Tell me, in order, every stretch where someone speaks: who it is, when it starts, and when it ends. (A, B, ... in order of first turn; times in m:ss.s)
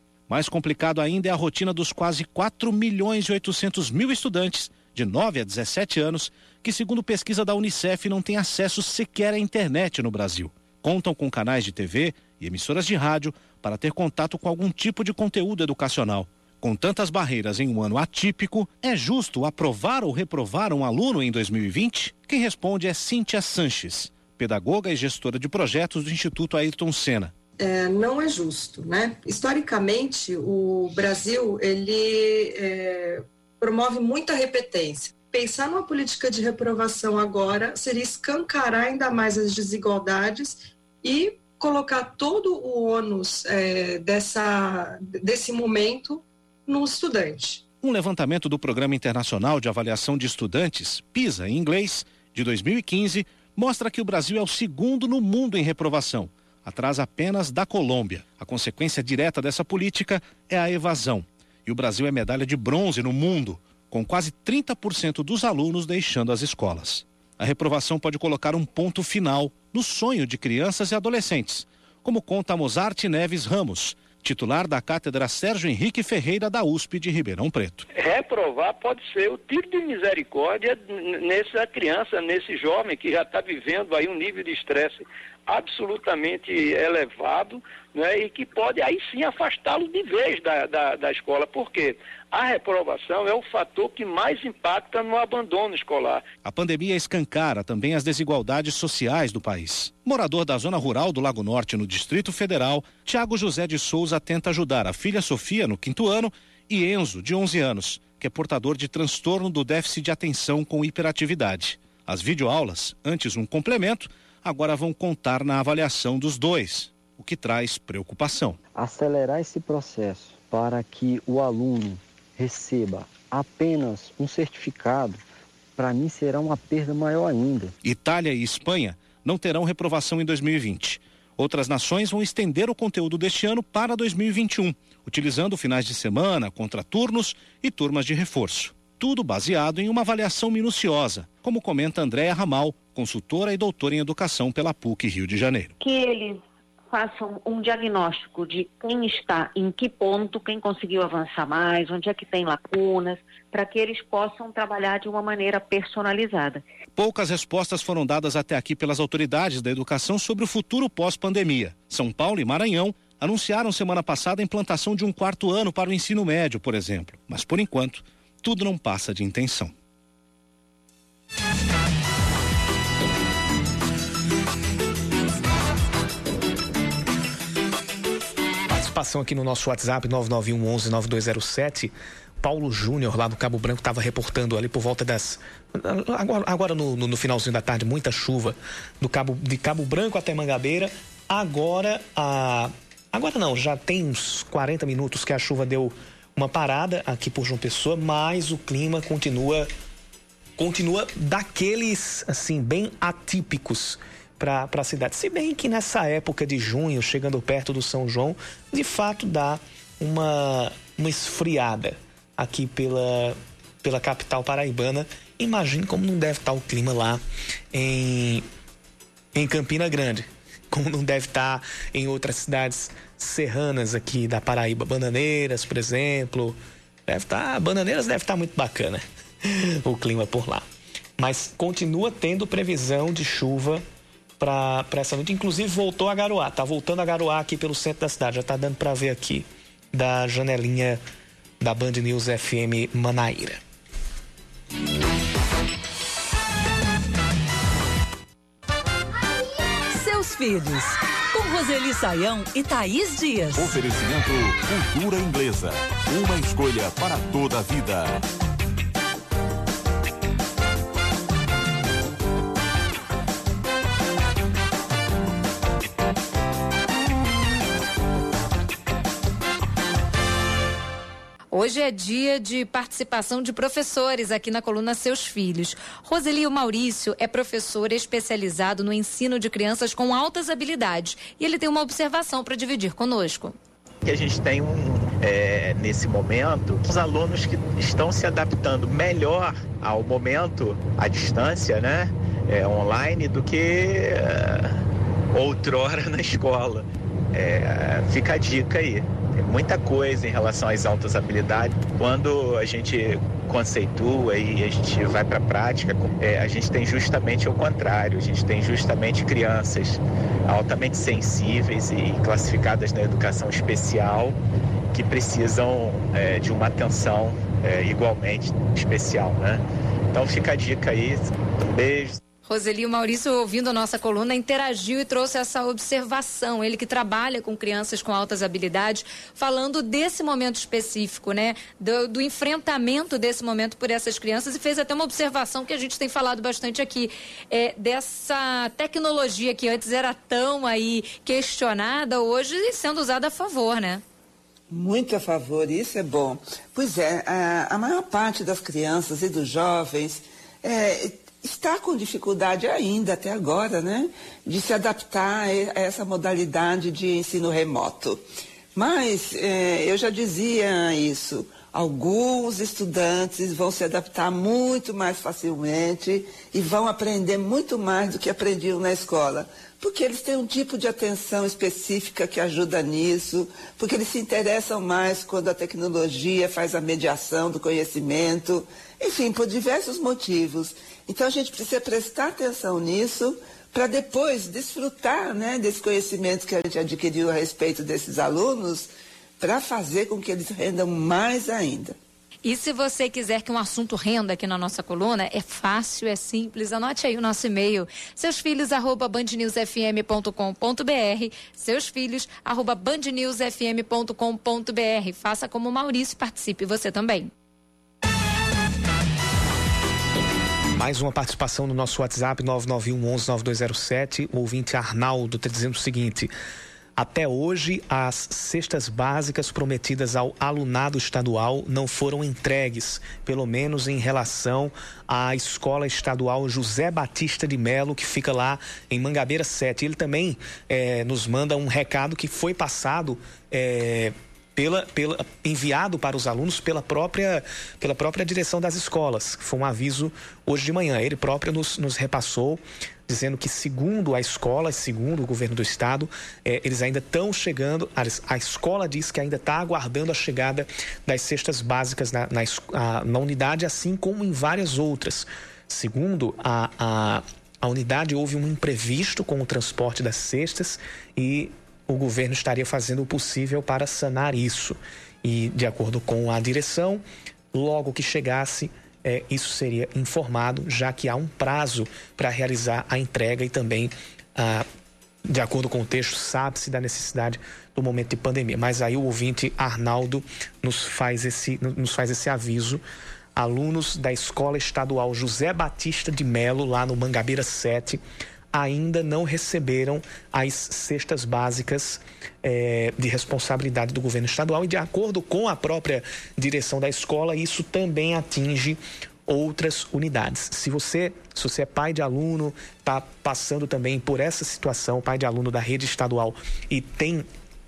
0:00.3-0:27.3 A
0:27.6-0:47.6 B
0:47.8-1:17.9 A
1:17.9-1:36.2 C
1:36.4-1:58.6 A
1:58.7-2:05.2 D
2:05.8-2:07.7 D
2:07.8-2:25.7 A
2:25.8-2:36.6 E
2:37.0-2:49.7 A
2:58.7-3:19.7 F
3:20.6-3:38.4 F
3:39.3-3:50.6 F
3:51.2-3:53.8 F
3:54.4-4:01.0 F
4:01.6-4:03.6 F
4:09.9-4:13.8 G
4:13.6-4:18.2 H
4:31.5-4:43.5 I
4:44.0-5:14.4 J
5:14.9-5:22.2 J
5:22.4-5:44.0 I
5:44.7-5:58.2 K
5:58.7-6:32.0 K
6:32.4-6:47.3 I
6:50.7-6:56.3 F
6:57.0-7:54.6 F
7:55.3-8:02.8 F
8:03.4-8:08.0 F
8:08.5-8:27.3 F